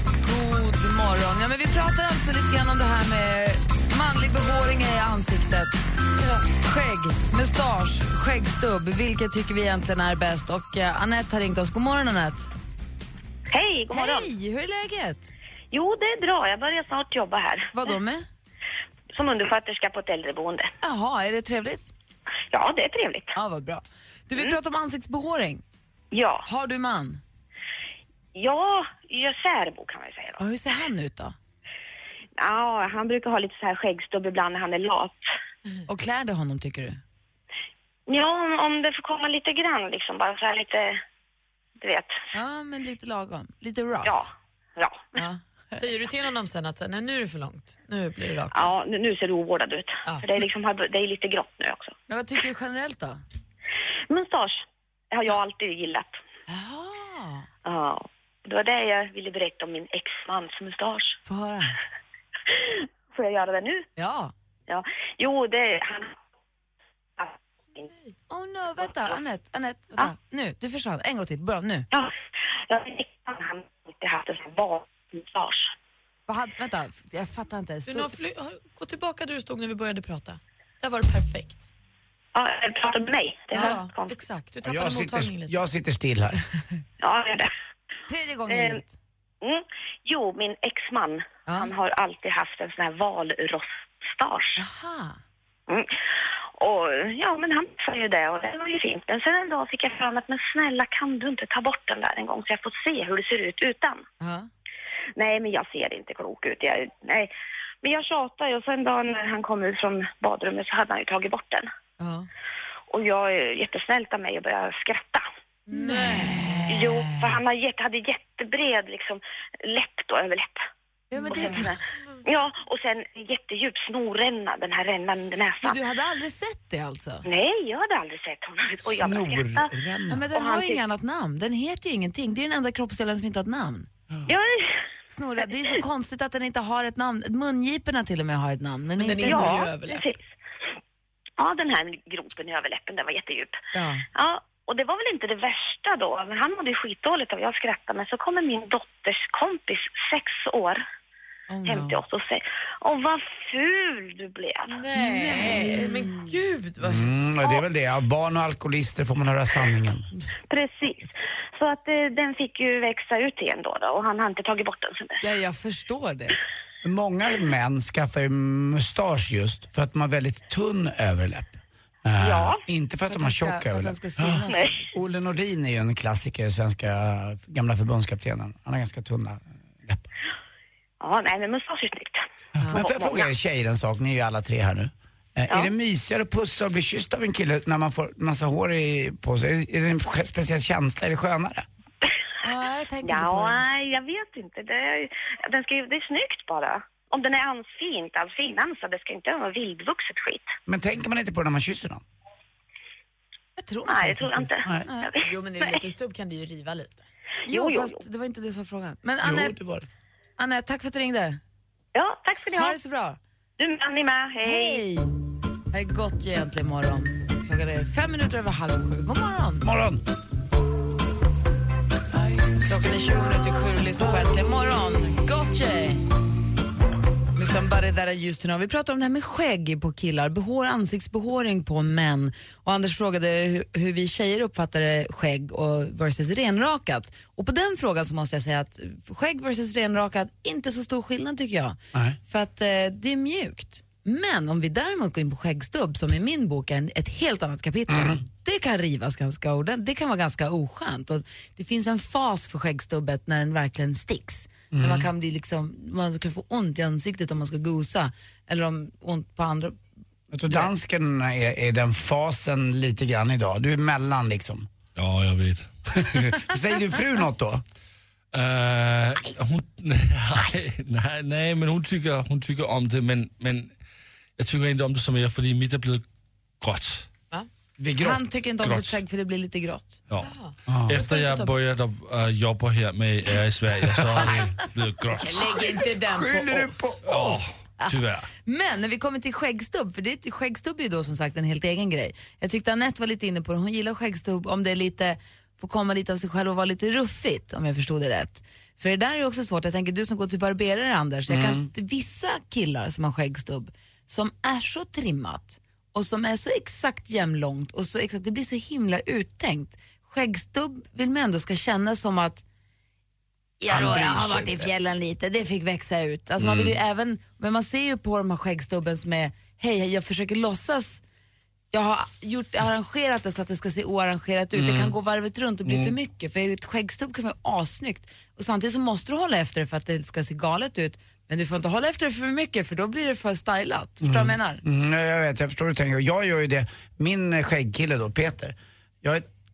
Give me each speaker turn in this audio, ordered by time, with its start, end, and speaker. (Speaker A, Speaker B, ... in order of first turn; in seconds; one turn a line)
Speaker A: 0.2-5.8
Speaker A: 6.6-12.5
Speaker B: 13.5-14.3
Speaker A: 13.9-15.3
Speaker B: 15.7-17.8
Speaker A: 17.7-18.3
Speaker B: 19.1-20.7
Speaker A: 20.8-21.9
Speaker B: 22.5-23.4
Speaker A: 23.4-25.6
Speaker B: 26.1-26.4
Speaker A: 26.4-27.2
Speaker B: 28.4-30.4
Speaker A: 30.4-31.4
Speaker B: 32.4-35.2
Speaker A: 35.9-37.0
Speaker B: 38.1-41.0
Speaker B: 41.8-42.2
Speaker A: 42.3-44.2
Speaker B: 44.0-45.1
Speaker A: 45.1-45.8
Speaker C: 45.8-48.7
Speaker B: 48.5-52.0
Speaker A: 52.1-53.2
Speaker B: 54.1-56.2
Speaker A: 56.5-57.5
Speaker B: 57.6-61.2
Speaker A: 61.3-61.8
Speaker B: 62.5-63.9
Speaker A: 64.0-64.3
Speaker B: 64.7-66.2
Speaker B: 67.2-67.9
Speaker A: 68.3-71.9
Speaker B: 72.7-75.7
Speaker A: 76.3-78.1
Speaker C: 77.9-81.7
Speaker B: 82.3-84.2
Speaker C: 83.5-85.6
Speaker A: 83.5-83.8
Speaker D: 84.6-86.4
Speaker B: 87.0-87.5
Speaker A: 88.1-89.0
Speaker B: 88.5-88.8
Speaker B: 89.4-94.6
Speaker A: 91.5-91.7
Speaker A: 94.6-95.2
Speaker B: 96.6-104.0
Speaker A: 104.2-104.5
Speaker B: 105.2-107.3
Speaker B: 107.8-111.7
Speaker A: 112.0-112.3
Speaker B: 112.9-115.2
Speaker C: 115.7-116.4
Speaker A: 115.7-117.4
Speaker B: 116.7-120.6
Speaker A: 121.1-121.8
Speaker B: 121.3-125.8
Speaker A: 125.6-127.3
Speaker B: 127.3-129.7
Speaker D: 128.8-130.3
Speaker A: 130.1-133.9
Speaker B: 130.3-130.8
Speaker B: 134.3-134.8
Speaker A: 135.1-139.7
Speaker C: 139.0-140.1
Speaker B: 139.2-140.2
Speaker B: 141.4-143.6
Speaker A: 143.7-144.1
Speaker B: 144.2-150.8
Speaker A: 151.5-152.0
Speaker B: 151.7-154.8
Speaker C: 154.7-157.3
Speaker A: 154.9-156.3
Speaker D: 156.8-160.1
Speaker B: 160.5-165.2
Speaker A: 165.2-166.4
Speaker D: 166.8-180.1
Speaker B: 172.2-172.6
Speaker A: 173.1-175.0
Speaker B: 174.5-174.8
Speaker B: 181.0-183.3
Speaker D: 182.6-191.7
Speaker A: 192.4-193.6
Speaker B: 193.1-200.5
Speaker D: 200.7-202.0
Speaker A: 203.6-205.1
Speaker B: 203.9-205.8
Speaker C: 205.2-207.1
Speaker A: 207.5-209.6
Speaker B: 207.5-208.0
Speaker D: 209.2-209.9
Speaker A: 210.4-211.4
Speaker B: 211.9-212.8
Speaker A: 212.6-213.2
Speaker B: 213.6-214.8
Speaker A: 214.4-215.1
Speaker A: 215.7-219.7
Speaker D: 219.6-220.0
Speaker A: 222.7-226.0
Speaker A: 227.4-259.8
Speaker D: 247.9-248.2
Speaker D: 254.7-255.1
Speaker D: 260.3-264.7
Speaker E: 265.0-266.4
Speaker D: 266.0-267.6
Speaker E: 268.3-273.8
Speaker E: 274.4-276.0
Speaker E: 276.6-277.1
Speaker D: 277.8-278.3
Speaker A: 278.0-280.0
Speaker E: 278.6-279.0
Speaker E: 280.1-280.3
Speaker C: 280.2-281.5
Speaker D: 280.7-281.0
Speaker E: 280.9-285.6
Speaker C: 285.1-287.0
Speaker D: 285.9-287.6
Speaker E: 287.1-288.3
Speaker A: 287.8-312.4
Speaker D: 301.3-301.7
Speaker A: 313.6-321.0
Speaker D: 313.7-314.7
Speaker D: 316.4-316.8
Speaker A: 321.7-334.6
Speaker D: 324.6-324.9
Speaker D: 325.7-325.9
Speaker D: 334.0-339.3